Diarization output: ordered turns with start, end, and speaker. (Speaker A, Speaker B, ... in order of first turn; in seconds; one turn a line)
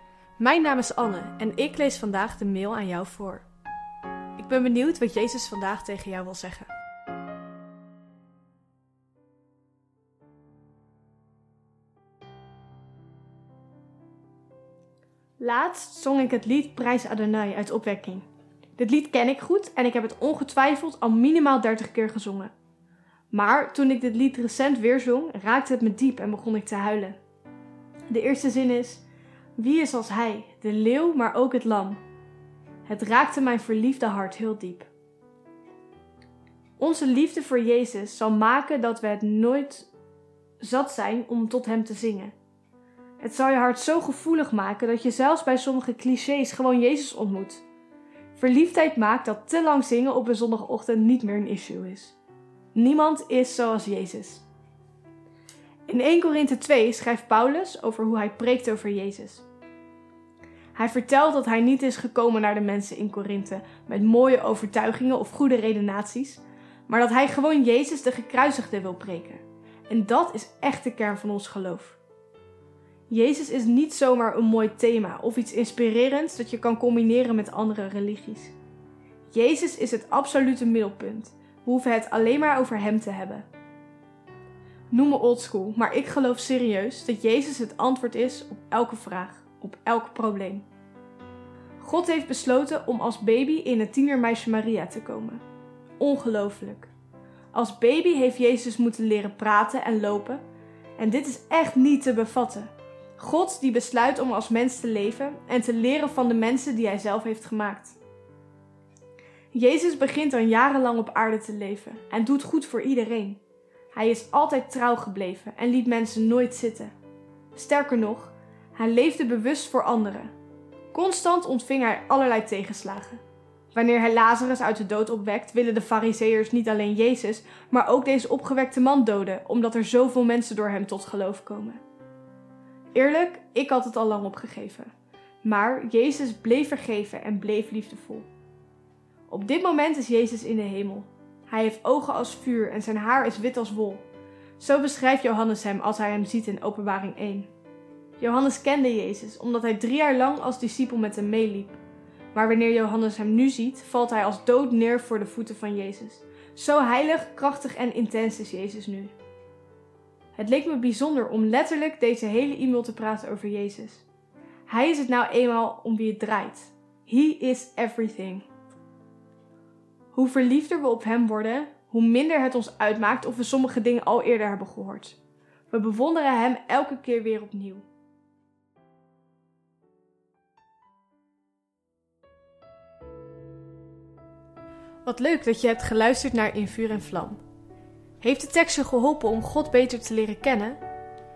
Speaker A: 0.4-3.5
Speaker A: 4.4-6.7
Speaker A: 15.4-22.5
Speaker A: 23.3-27.2
Speaker A: 28.1-29.0
Speaker A: 29.6-32.0
Speaker A: 32.8-34.9
Speaker A: 36.8-39.9
Speaker A: 40.6-42.3
Speaker A: 43.2-47.6
Speaker A: 48.3-52.2
Speaker A: 52.7-54.4
Speaker A: 55.9-59.5
Speaker A: 60.7-72.0
Speaker A: 73.1-78.5
Speaker A: 79.3-83.5
Speaker A: 84.9-90.7
Speaker A: 91.8-95.4
Speaker A: 96.0-96.9
Speaker A: 97.5-100.4
Speaker A: 101.0-108.0
Speaker A: 109.5-113.4
Speaker A: 113.9-116.9
Speaker A: 117.5-120.3
Speaker A: 120.9-123.2
Speaker A: 123.7-131.8
Speaker A: 132.9-134.9
Speaker A: 135.4-138.3
Speaker A: 139.3-144.1
Speaker A: 144.6-147.5
Speaker A: 148.2-151.8
Speaker A: 152.3-159.1
Speaker A: 160.3-164.1
Speaker A: 164.7-168.5
Speaker A: 170.1-175.2
Speaker A: 175.7-177.8
Speaker A: 185.0-187.4
Speaker A: 188.2-190.8